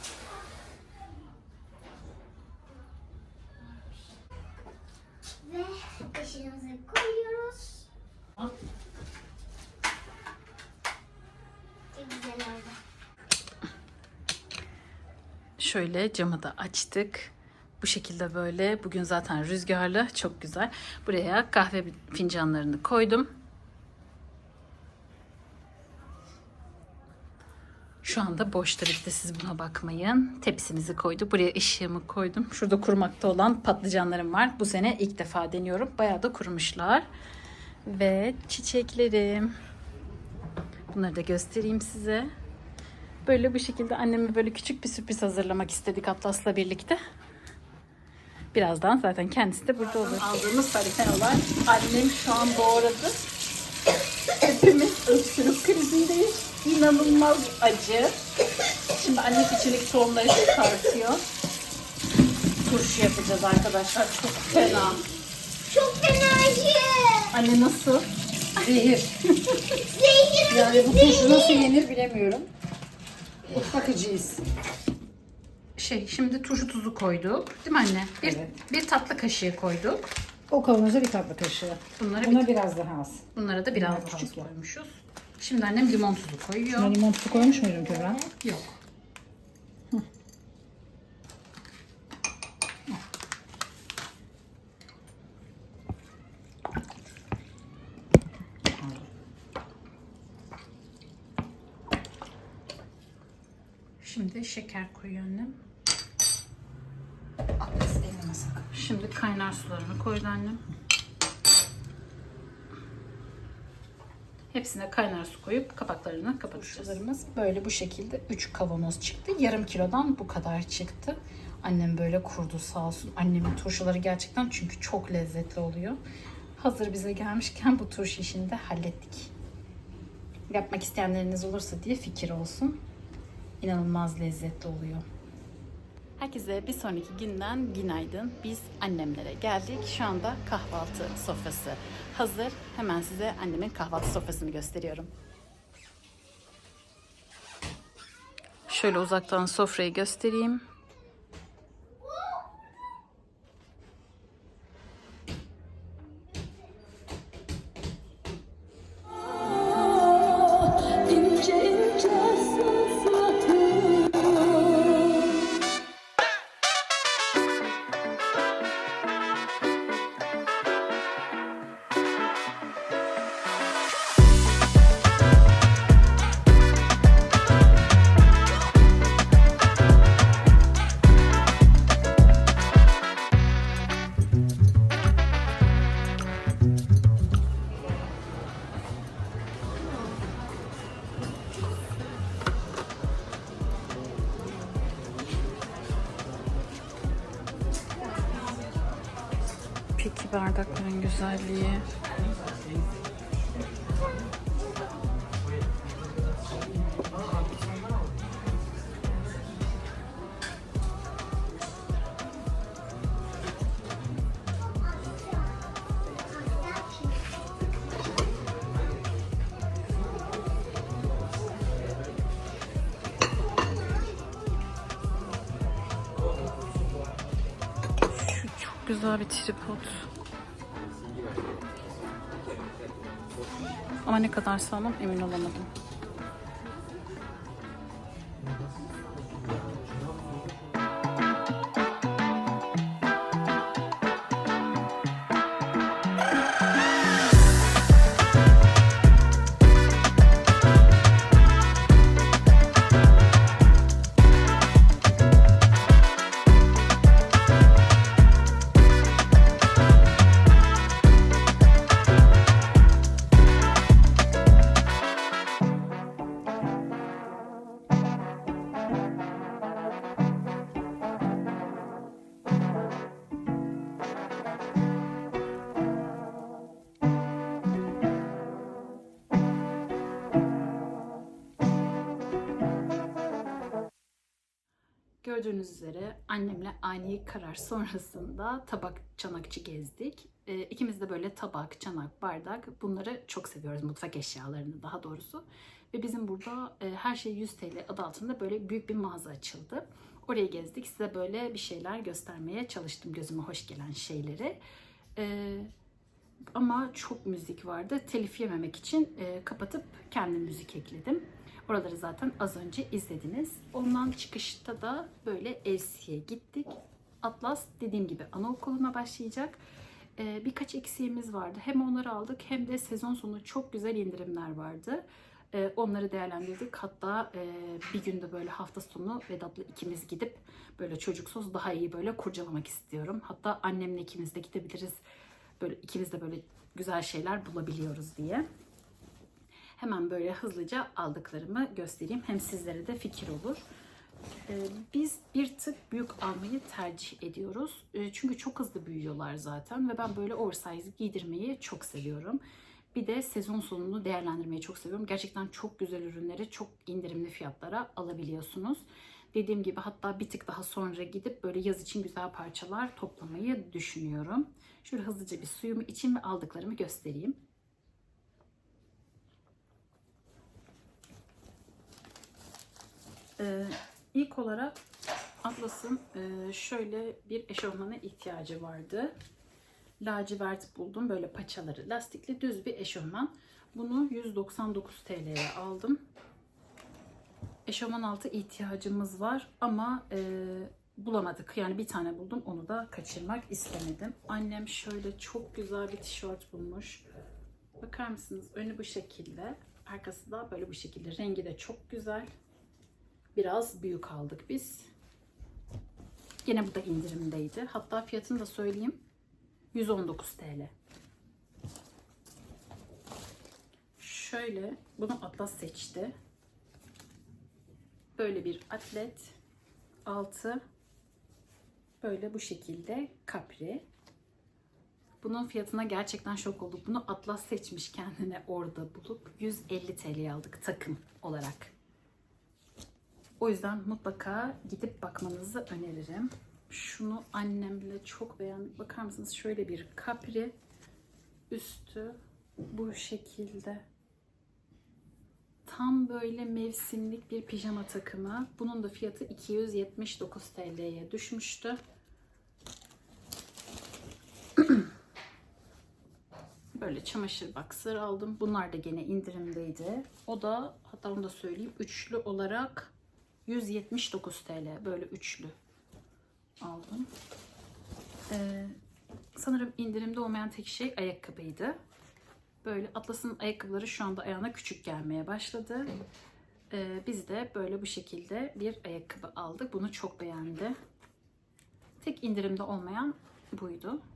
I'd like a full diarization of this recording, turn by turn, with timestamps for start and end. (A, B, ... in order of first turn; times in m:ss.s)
0:05.4-0:07.8 A
0:11.9-0:12.8 A
0:15.6-0:23.3 B
0:28.0-0:37.1 B
0:37.8-0:39.5 B
0:40.9-0:42.3 B
0:43.2-0:47.0 B
0:48.5-0:53.3 B
0:54.3-0:58.2 B
0:58.9-1:01.2 B
1:02.6-1:05.0 B
1:05.7-1:07.3 A
1:07.3-1:08.6 B
1:08.6-1:09.1 C
1:09.4-1:09.8 B
1:09.8-1:11.7 A
1:10.5-1:12.5 C
1:13.5-1:14.4 C
1:15.8-1:20.1 B
1:18.2-1:18.5 C
1:20.5-1:24.5 C
1:22.0-1:22.5 B
1:23.3-1:27.0 B
1:26.8-1:28.2 C
1:27.3-1:28.2 A
1:28.4-1:28.8 B
1:38.8-1:39.1 C
1:44.0-1:45.6 B
1:47.6-1:48.6 C
1:48.6-1:50.6 B
1:54.5-2:06.0 B
2:06.6-2:09.3 B
2:10.5-2:12.8 B
2:13.6-2:15.0 B
2:16.2-2:25.1 B
2:28.7-2:30.6 B
2:40.1-2:40.8 C
2:40.1-2:44.3 B
2:41.4-2:42.8 C
3:20.0-3:21.9 B
3:35.0-3:35.5 A
3:36.3-3:37.2 A
3:48.1-3:50.1 B
3:54.0-3:55.7 B
4:45.2-5:04.6 B
5:05.2-5:05.7 B
5:06.5-5:19.6 B
5:20.2-5:35.0 B
5:35.6-5:38.5 B
5:39.8-5:43.6 B
5:44.5-5:52.4 B
5:52.9-6:07.4 B
6:13.4-6:14.8 B
6:15.4-6:19.1 B
6:20.0-6:26.0 B
6:27.7-6:37.0 B
6:37.8-6:42.3 B
6:43.3-6:44.9 B
6:46.4-6:49.0 B
6:49.7-6:50.7 B
6:54.0-6:56.1 B
6:58.2-6:59.4 B
7:00.0-7:00.6 B
7:02.0-7:03.8 B
7:05.2-7:11.7 B
7:13.4-7:20.5 B
7:21.5-7:22.2 B
7:22.7-7:23.8 B
7:25.6-7:31.8 B
7:34.6-7:34.8 B
7:36.7-7:42.9 B
7:43.4-7:45.5 B
7:46.6-7:47.1 B
7:48.3-7:48.8 B
7:49.3-7:51.8 B
7:52.6-7:55.9 B
7:56.7-8:00.8 B
8:02.0-8:04.0 B